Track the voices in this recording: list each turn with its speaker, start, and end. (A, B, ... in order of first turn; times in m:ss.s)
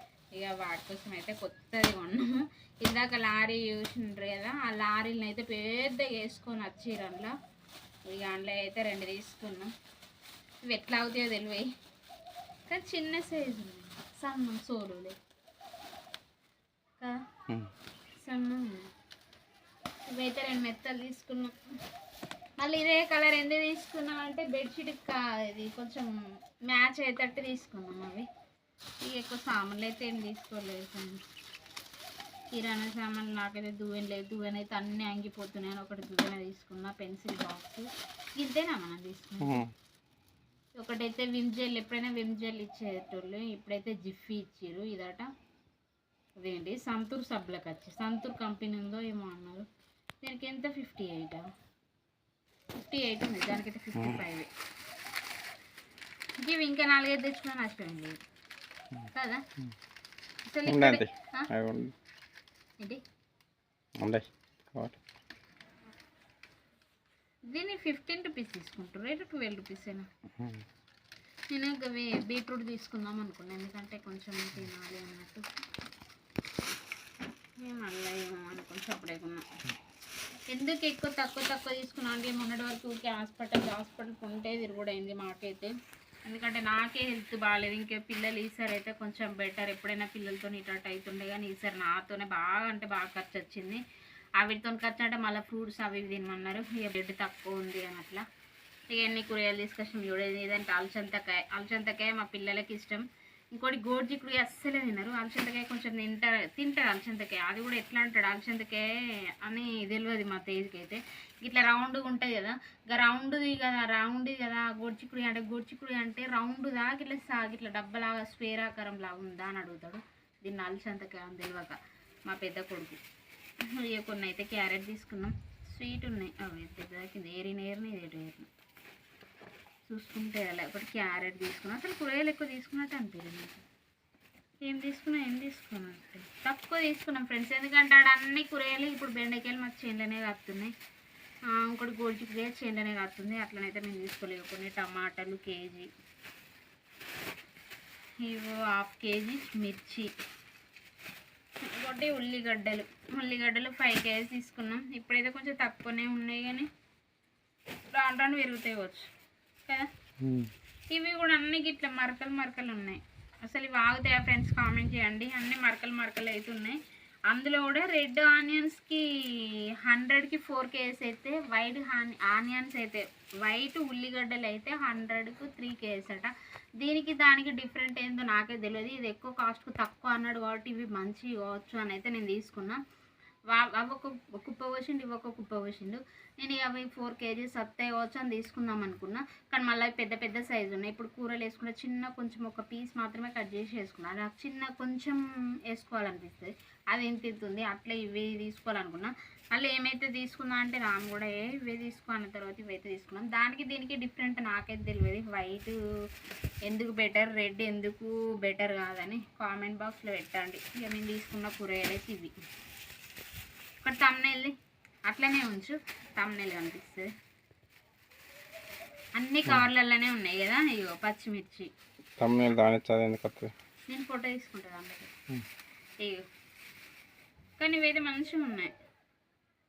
0:00.4-0:07.3 A
0:08.1-0:09.7 A
0:10.7-0:11.7 A
0:12.7-0:15.2 A
0:18.2-0:18.9 A
0:20.1-0:21.5 A
0:22.6-0:26.1 A
0:26.7-0:28.3 A
0:29.0-0:31.2 A
0:32.5-0:37.9 A
0:38.4-0:39.6 A
0:39.4-0:39.7 B
0:40.8-0:45.3 A
0:46.4-0:49.7 A
0:50.2-0:51.4 A
0:52.8-0:54.5 A
0:56.4-0:58.2 A
0:59.1-0:59.4 A
1:00.5-1:01.5 A
1:00.7-1:02.0 B
1:04.0-1:05.0 B
1:07.5-1:10.1 A
1:11.5-1:15.5 A
1:17.6-1:19.4 A
1:20.5-1:25.7 A
1:26.2-1:33.8 A
1:34.4-1:38.2 A
1:38.9-1:48.8 A
1:49.4-2:03.0 A
2:03.7-2:08.5 A
2:09.9-2:13.6 A
2:14.6-2:20.7 A
2:21.5-2:25.9 A
2:28.2-2:30.1 A
2:31.8-2:36.7 A
2:37.9-2:39.1 A
2:40.2-2:40.5 B
2:40.9-2:46.8 A
2:47.3-3:02.8 A
3:03.5-3:25.8 A
3:26.7-3:32.3 A
3:33.8-3:34.5 A
3:35.1-3:37.1 A
3:39.2-3:41.7 A
3:42.2-3:43.5 B
3:43.9-3:45.1 A
3:47.6-3:48.7 A